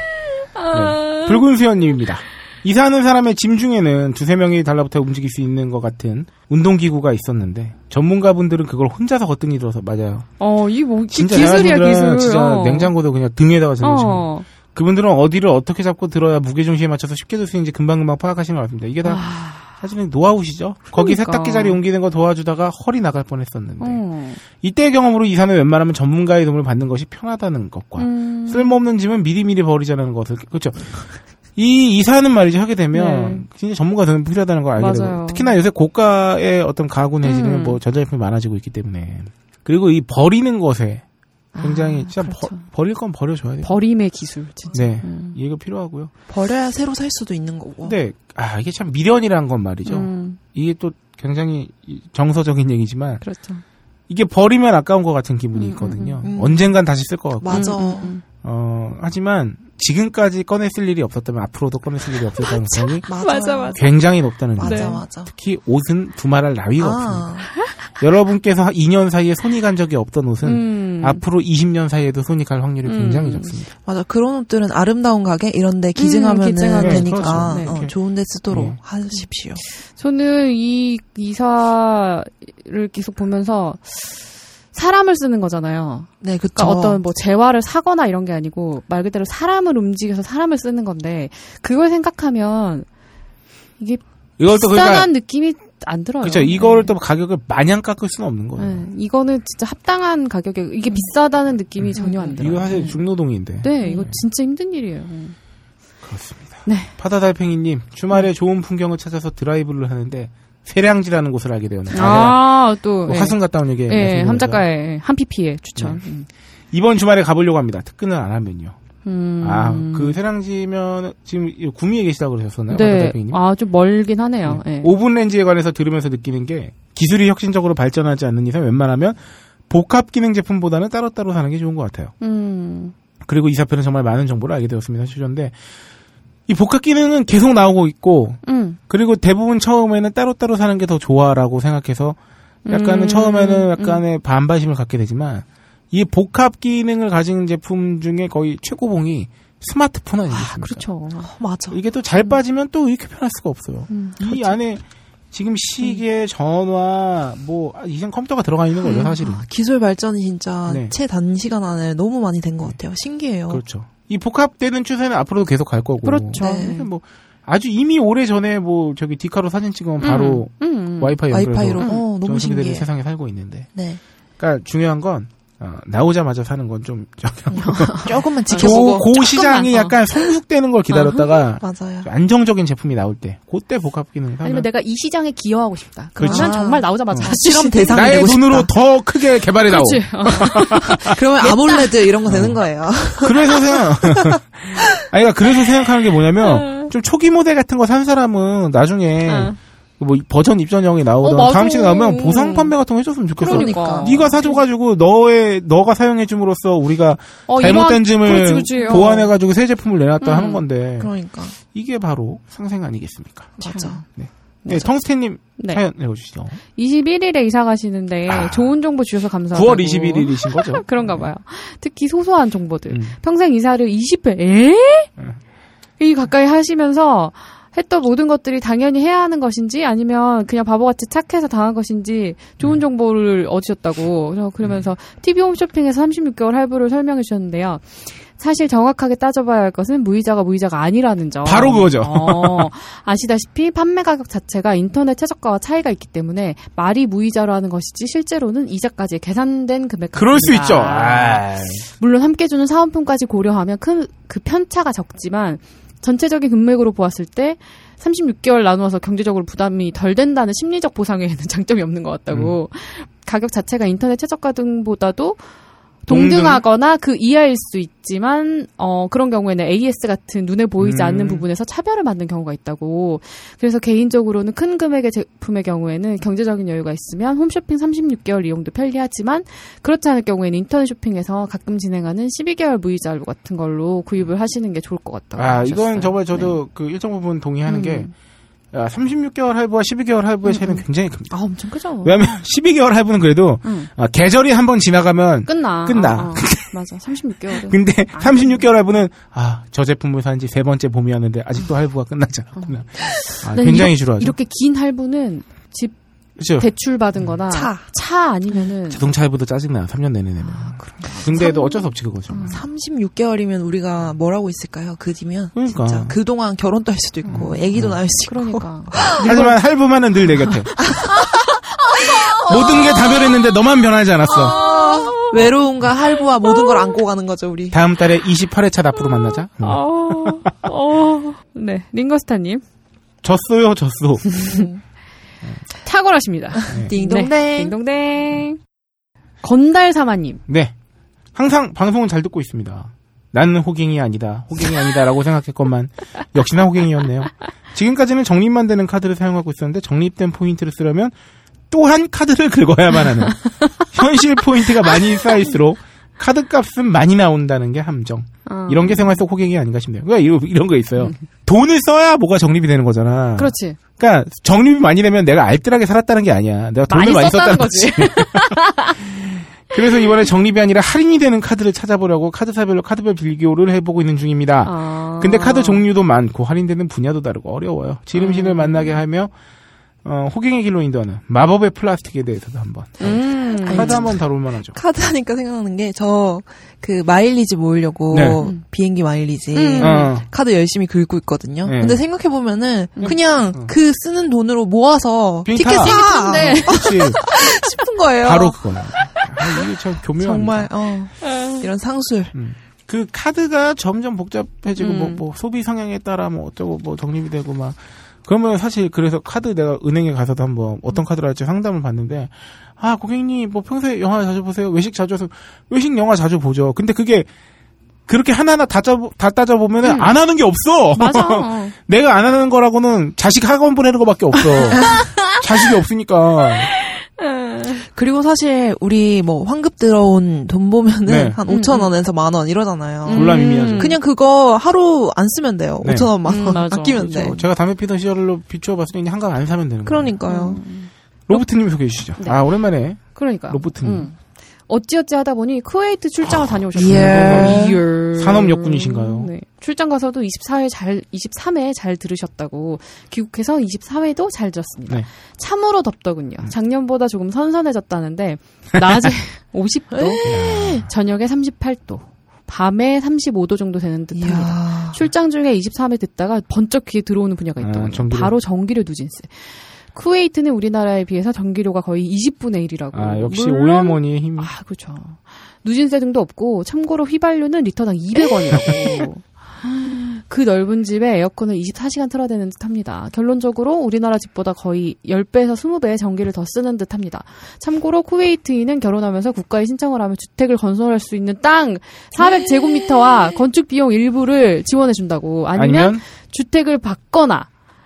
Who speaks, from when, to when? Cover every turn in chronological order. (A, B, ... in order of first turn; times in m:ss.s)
0:00.5-0:01.4 A
0:00.7-0:10.3 B
0:10.4-0:12.9 A
0:11.1-0:41.0 B
0:13.8-0:14.4 A
0:19.0-0:19.7 A
0:20.9-0:21.8 A
0:23.8-0:24.4 A
0:28.0-0:28.8 A
0:32.9-0:33.4 A
0:34.8-0:35.5 A
0:37.2-0:37.8 A
0:41.5-0:42.6 A
0:41.6-0:43.7 B
0:43.6-0:45.4 A
0:44.7-0:46.1 B
0:46.3-0:48.0 C
0:47.8-0:53.2 B
0:49.8-0:50.4 A
0:53.2-0:53.6 A
0:54.1-1:03.1 B
0:55.6-0:56.2 A
0:56.2-0:56.8 C
0:57.4-0:58.1 C
0:57.5-0:58.2 A
1:02.8-1:03.8 A
1:02.9-1:03.8 C
1:03.7-1:07.3 B
1:04.6-1:05.3 C
1:04.6-1:05.0 A
1:06.8-1:07.5 C
1:08.0-1:13.7 B
1:10.4-1:11.2 A
1:12.8-1:13.6 A
1:13.8-1:19.6 C
1:16.0-1:17.8 A
1:16.8-1:17.9 B
1:18.5-1:18.8 B
1:19.8-1:32.9 A
1:26.2-1:27.0 C
1:33.8-1:36.9 A
1:34.4-1:35.1 B
1:36.2-1:38.8 B
1:38.6-1:43.0 A
1:41.8-1:44.2 B
1:42.0-1:42.4 C
1:43.6-1:45.3 A
1:46.0-1:54.6 B
1:46.6-1:46.9 A
1:51.9-1:56.3 A
1:55.8-1:56.0 B
1:56.7-1:58.7 B
1:59.0-2:00.2 A
1:59.4-2:03.4 B
2:02.7-2:04.9 A
2:04.4-2:09.2 B
2:09.7-2:12.1 B
2:12.2-2:12.9 A
2:13.2-2:15.5 B
2:16.5-2:22.2 B
2:18.4-2:18.8 A
2:22.6-2:24.0 A
2:22.7-2:30.8 B
2:30.3-2:31.3 A
2:31.3-2:31.8 C
2:31.7-2:34.8 B
2:33.9-2:34.2 A
2:34.2-2:34.5 C
2:35.3-2:39.4 B
2:38.8-2:39.3 A
2:38.9-2:43.6 C
2:40.7-2:40.9 B
2:43.5-2:53.7 B
2:46.0-2:46.9 A
2:46.4-2:46.8 C
2:50.0-2:51.2 A
2:51.3-2:52.9 C
2:51.8-2:52.0 A
2:53.7-2:54.0 C
2:54.4-3:04.7 B
2:57.5-2:59.1 C
2:57.6-3:00.0 A
3:00.9-3:01.2 A
3:01.6-3:02.1 C
3:04.4-3:08.4 A
3:06.2-3:07.3 B
3:06.2-3:08.7 C
3:07.9-3:11.2 B
3:09.7-3:12.1 A
3:10.9-3:14.4 C
3:12.2-3:12.6 B
3:13.2-3:31.1 B
3:16.4-3:16.9 A
3:19.3-3:19.6 A
3:21.2-3:22.7 A
3:23.4-3:24.3 C
3:23.4-3:24.6 A
3:27.5-3:29.3 A
3:28.8-3:29.1 C
3:30.2-3:30.6 A
3:31.0-3:31.6 C
3:31.7-3:36.6 B
3:33.6-3:34.0 C
3:33.7-3:34.0 A
3:34.6-3:35.8 A
3:36.8-3:45.1 A
3:38.3-3:38.7 B
3:39.5-3:41.2 B
3:42.9-3:43.2 B
3:46.0-4:11.4 A
4:01.4-4:02.7 B
4:10.1-4:11.9 B
4:12.0-4:25.4 A
4:26.0-4:46.6 A
4:26.1-4:26.6 B
4:30.8-4:31.4 B
4:45.4-4:48.1 B
4:47.7-4:48.1 A
4:48.7-4:51.3 B
4:50.4-4:52.2 A
4:52.0-4:56.7 B
4:55.4-4:58.6 A
4:57.5-5:04.4 B
5:02.6-5:05.9 A
5:06.4-5:06.7 B
5:06.6-5:09.1 A
5:07.5-5:07.8 C
5:08.9-5:12.6 B
5:10.4-5:12.6 A
5:12.4-5:19.5 C
5:15.5-5:16.2 B
5:17.2-5:17.7 A
5:17.3-5:18.0 B
5:18.2-5:19.6 A
5:19.0-5:20.9 B
5:20.8-5:21.2 C
5:22.4-5:23.2 C
5:22.5-5:24.6 B
5:24.3-5:27.8 C
5:24.5-5:25.3 A
5:27.7-5:30.5 B
5:29.2-5:32.6 A
5:33.2-5:34.4 B
5:34.3-5:34.6 A
5:34.4-5:34.8 C
5:35.8-5:38.6 A
5:36.7-5:37.7 C
5:39.4-5:40.4 A
5:40.5-5:40.7 B
5:41.3-5:51.1 B
5:51.7-6:19.3 B
5:58.4-5:59.2 A
6:03.4-6:03.8 A
6:06.9-6:09.1 A
6:14.6-6:15.8 A
6:18.1-6:19.0 A
6:20.0-6:24.8 B
6:23.0-6:24.1 A
6:23.6-6:24.2 C
6:24.7-6:38.6 C
6:28.1-6:28.4 B
6:29.5-6:30.1 A
6:29.8-6:30.2 B
6:31.6-6:32.0 B
6:33.0-6:33.7 B
6:35.4-6:37.2 B
6:35.6-6:37.4 A
6:38.2-6:40.7 B
6:40.2-6:42.3 C
6:41.2-6:41.6 A
6:42.3-6:57.3 B
6:44.8-6:45.2 A
6:58.1-7:06.7 B
6:59.8-7:00.1 A
7:00.9-7:01.7 A
7:04.5-7:05.4 A
7:07.2-7:07.8 A
7:07.9-7:17.4 C
7:11.1-7:11.4 B
7:11.5-7:11.9 A
7:13.0-7:14.0 A
7:13.1-7:14.0 B
7:15.8-7:20.1 B
7:16.2-7:17.4 A
7:19.8-7:20.6 C
7:20.3-7:21.4 A
7:21.3-7:24.1 B
7:23.0-8:17.5 A
7:26.2-7:29.3 B
7:26.7-7:27.8 C
7:39.9-7:40.8 C
7:40.2-7:40.9 B
7:44.1-7:45.0 C
7:47.6-7:48.3 B
7:52.9-7:54.5 B
8:15.5-8:16.0 B